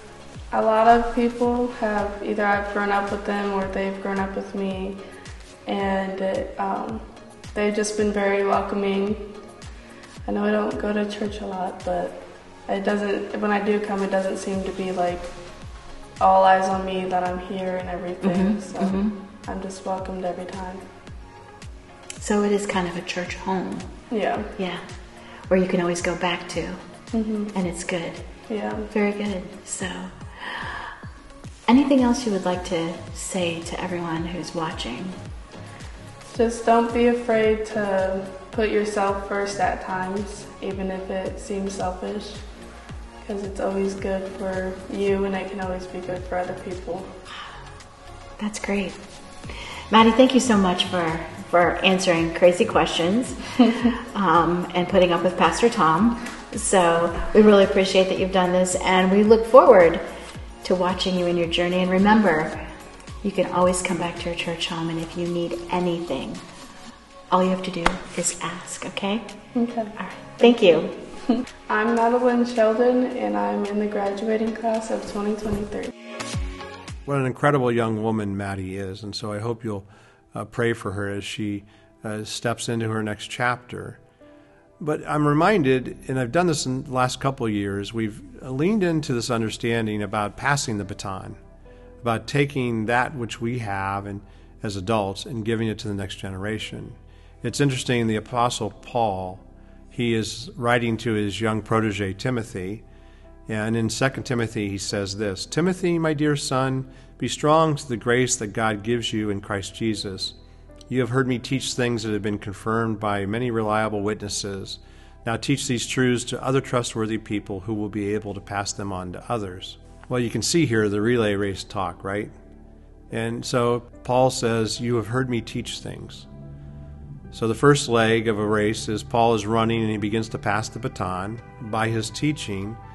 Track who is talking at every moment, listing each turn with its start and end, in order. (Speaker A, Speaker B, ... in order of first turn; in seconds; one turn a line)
Speaker A: 0.5-5.0
Speaker A: 5.6-9.4
Speaker A: 10.2-15.4
Speaker A: 16.2-20.9
Speaker B: 18.2-19.2
Speaker B: 22.2-23.9
Speaker A: 24.1-24.6
Speaker B: 24.6-24.9
Speaker B: 25.5-26.8
Speaker A: 27.1-27.6
Speaker B: 27.5-28.2
Speaker A: 28.5-28.9
Speaker B: 28.9-30.9
Speaker B: 31.7-35.2
Speaker A: 36.3-42.4
Speaker A: 43.2-47.1
Speaker B: 48.4-49.0
Speaker B: 49.9-53.4
Speaker B: 53.9-60.0
Speaker B: 60.6-62.7
Speaker B: 63.2-66.4
Speaker B: 67.3-69.3
Speaker A: 69.5-75.9
Speaker B: 70.0-70.9
Speaker C: 77.1-84.0
Speaker C: 84.8-91.4
Speaker C: 92.0-102.8
Speaker C: 103.5-110.4
Speaker C: 110.9-122.3
Speaker C: 123.1-126.3
Speaker C: 127.3-132.8